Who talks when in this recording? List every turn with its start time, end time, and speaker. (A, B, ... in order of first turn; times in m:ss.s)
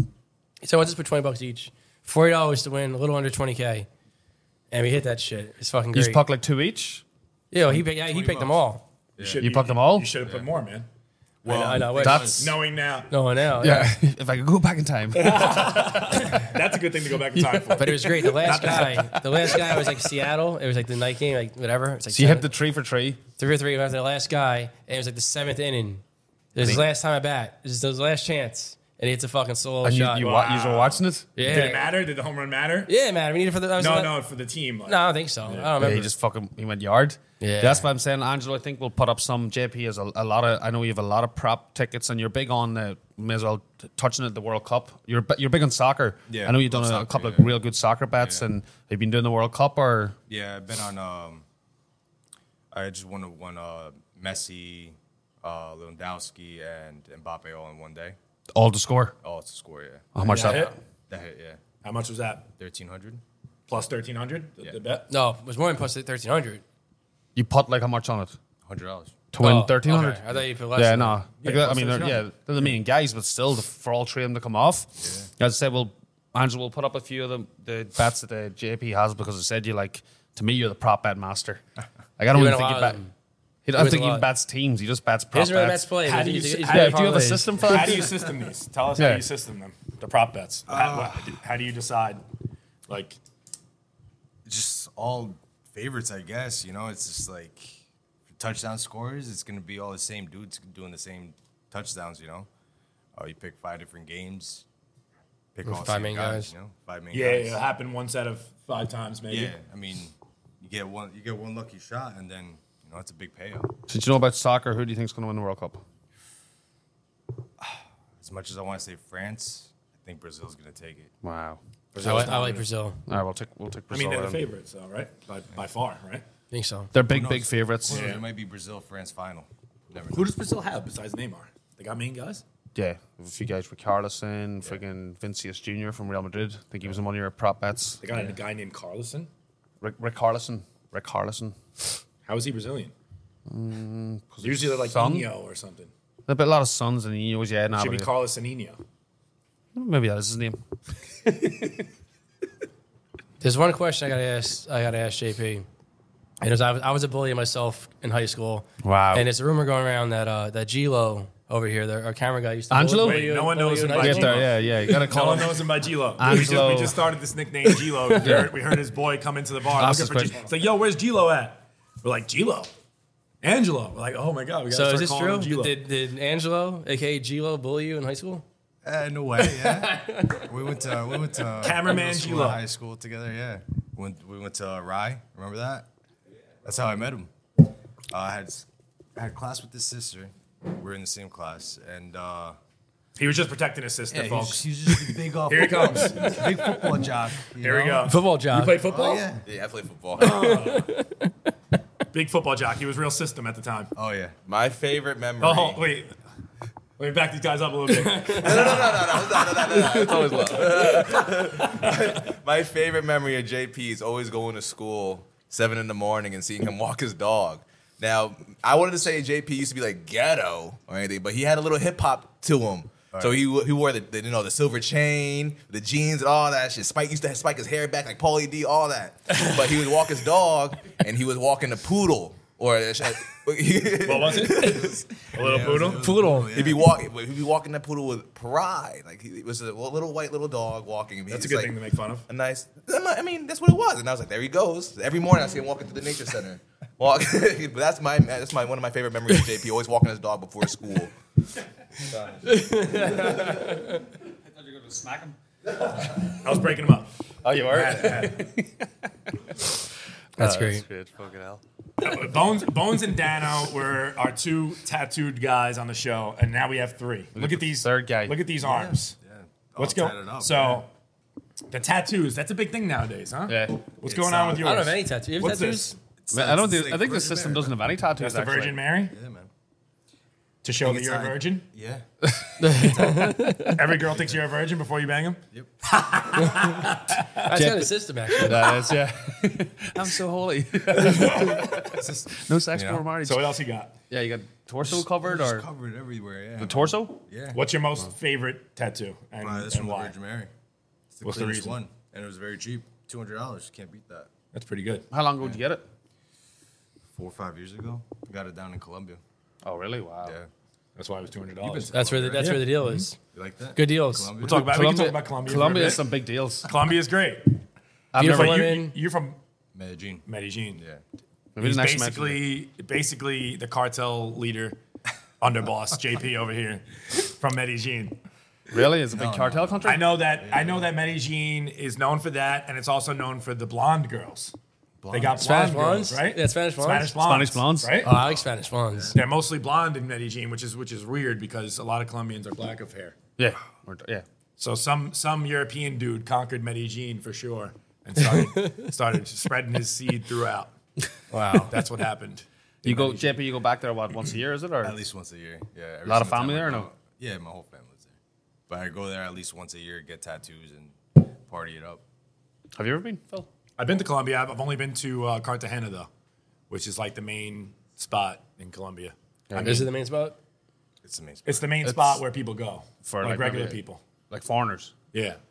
0:00.6-0:03.9 A
0:04.7-0:06.2 A
0:05.9-0:07.0 B
0:07.5-0:08.8 A
0:07.9-0:08.6 C
0:09.2-0:09.4 C
0:09.2-0:10.9 D
0:09.4-0:10.1 B
0:11.4-0:12.5 C
0:11.4-0:12.5 A
0:12.0-0:12.5 B
0:12.4-0:13.1 D
0:13.1-0:14.0 A
0:13.6-0:16.4 B
0:15.1-0:19.2 D
0:17.4-0:17.8 B
0:17.8-0:22.5 A
0:18.4-0:20.0 B
0:22.1-0:23.2 B
0:23.4-0:26.0 A
0:26.5-0:30.4 A
0:29.8-0:31.4 B
0:30.2-0:32.9 D
0:31.4-0:31.9 A
0:32.9-0:34.2 A
0:33.8-0:35.8 D
0:34.9-0:36.1 A
0:35.8-0:50.2 B
0:37.4-0:37.9 A
0:46.3-0:47.5 C
0:50.3-0:51.4 C
0:52.7-0:58.2 C
0:58.5-0:59.2 B
0:59.2-1:01.6 C
1:00.1-1:00.7 B
1:00.2-1:00.7 D
1:01.8-1:02.5 D
1:02.6-1:03.2 C
1:03.7-1:05.1 D
1:05.1-1:06.6 A
1:07.4-1:08.4 B
1:08.7-1:09.2 C
1:09.3-1:21.6 B
1:09.4-1:11.2 A
1:11.4-1:12.2 D
1:15.0-1:15.3 C
1:22.2-1:23.0 B
1:22.3-1:23.1 A
1:23.6-1:25.9 B
1:23.8-1:24.3 A
1:25.3-1:27.8 A
1:26.0-1:27.1 D
1:26.6-1:28.1 B
1:27.6-1:32.2 D
1:29.0-1:29.2 B
1:30.7-1:31.3 C
1:32.9-1:33.2 D
1:34.5-1:37.8 C
1:38.3-1:42.5 C
1:43.2-1:44.6 C
1:45.6-1:47.6 C
1:45.6-1:46.5 A
1:47.1-1:49.6 D
1:49.3-1:53.8 C
1:53.9-1:55.8 B
1:57.6-2:01.1 C
2:01.2-2:02.3 B
2:01.9-2:02.6 D
2:02.0-2:03.0 A
2:03.1-2:04.4 B
2:03.9-2:06.2 D
2:06.5-2:06.9 A
2:06.9-2:08.1 B
2:07.1-2:10.3 C
2:07.9-2:08.2 D
2:10.1-2:12.4 D
2:12.8-2:18.3 B
2:18.0-2:19.3 D
2:19.8-2:21.6 B
2:22.3-2:22.9 D
2:23.5-2:25.3 B
2:24.4-2:25.9 D
2:26.3-2:28.1 B
2:27.7-2:28.8 D
2:29.8-2:30.6 B
2:31.2-2:31.8 B
2:33.4-2:35.7 A
2:36.4-2:45.1 A
2:38.8-2:39.3 B
2:42.7-2:43.3 B
2:43.0-2:52.7 D
2:44.0-2:47.1 B
2:47.9-2:48.5 A
2:48.2-2:48.6 B
2:49.8-2:50.5 B
2:53.4-2:55.7 D
2:54.7-2:58.4 A
2:54.9-2:55.2 B
2:58.8-3:05.9 C
2:59.4-3:00.5 A
3:01.6-3:02.6 D
3:06.6-3:07.3 C
3:08.1-3:12.6 C
3:13.2-3:14.7 D
3:14.1-3:18.2 C
3:15.3-3:16.7 D
3:16.2-3:16.8 A
3:17.6-3:19.3 D
3:18.0-3:19.1 A
3:18.8-3:19.4 C
3:19.4-3:20.5 E
3:20.2-3:20.9 D
3:20.2-3:21.3 A
3:22.1-3:23.9 D
3:24.0-3:24.4 C
3:24.4-3:25.8 E
3:25.4-3:26.1 D
3:27.0-3:29.6 D
3:27.9-3:28.6 A
3:28.3-3:55.2 E
3:43.1-3:43.4 C
3:54.0-3:56.0 D
3:55.4-3:56.9 C
3:55.6-3:56.5 A
3:56.5-4:11.1 E
4:01.3-4:02.3 D
4:12.4-4:14.0 A
4:14.5-4:15.4 B
4:16.1-4:18.5 D
4:17.4-4:18.7 B
4:20.4-4:20.8 A
4:20.4-4:21.6 B
4:22.0-4:29.2 D
4:27.4-4:28.4 B
4:28.6-4:30.8 C
4:29.8-4:30.9 D
4:31.7-4:36.0 D
4:33.5-4:33.8 B
4:34.0-4:34.8 C
4:34.5-4:36.0 A
4:36.2-4:37.8 C
4:36.3-4:38.8 B
4:38.2-4:39.2 D
4:39.1-4:39.5 C
4:40.6-4:41.7 D
4:40.8-4:43.4 C
4:42.2-4:42.5 B
4:42.6-4:43.8 A
4:43.7-4:47.4 D
4:47.4-4:48.7 A
4:47.4-4:53.6 B
4:48.3-4:48.7 D
4:50.9-4:52.0 D
4:51.9-4:53.1 C
4:53.2-4:53.9 D
4:54.1-4:55.7 B
4:54.9-4:57.6 C
4:56.6-4:57.2 B
4:57.5-5:00.1 D
4:59.4-5:00.5 C
5:01.1-5:04.3 C
5:01.2-5:01.8 D
5:04.5-5:05.1 D
5:05.1-5:05.8 B
5:07.2-5:09.2 C
5:09.6-5:10.4 B
5:10.2-5:10.5 C
5:11.0-5:12.7 D
5:11.6-5:12.7 C
5:11.9-5:13.2 A
5:13.3-5:14.7 C
5:13.8-5:14.3 A
5:14.4-5:16.0 D
5:14.4-5:16.7 B
5:16.6-5:17.6 D
5:18.1-5:18.7 B
5:18.2-5:19.0 A
5:18.2-5:19.4 D
5:19.7-5:20.3 C
5:20.3-5:20.8 D
5:20.8-5:21.0 C
5:21.6-5:22.4 B
5:21.6-5:24.8 D
5:25.4-5:28.2 D
5:28.7-5:30.2 B
5:29.1-5:30.9 C
5:29.8-5:34.5 D
5:35.0-5:35.4 C
5:35.1-5:38.1 D
5:35.3-5:37.1 A
5:37.2-5:38.0 B
5:38.0-5:39.2 A
5:38.9-5:39.2 C
5:39.1-5:43.2 D
5:43.4-5:44.2 B
5:44.6-5:50.7 D
5:51.3-5:51.8 A
5:51.7-5:53.4 D
5:52.8-5:55.0 B
5:54.8-5:58.2 C
5:56.0-5:56.9 B
5:58.7-6:02.0 C
6:02.8-6:03.5 B
6:03.8-6:06.1 D
6:06.7-6:09.1 D
6:09.5-6:09.9 B
6:09.5-6:10.4 A
6:11.0-6:11.7 C
6:11.4-6:14.0 D
6:11.8-6:12.2 B
6:13.0-6:14.9 B
6:15.1-6:15.4 D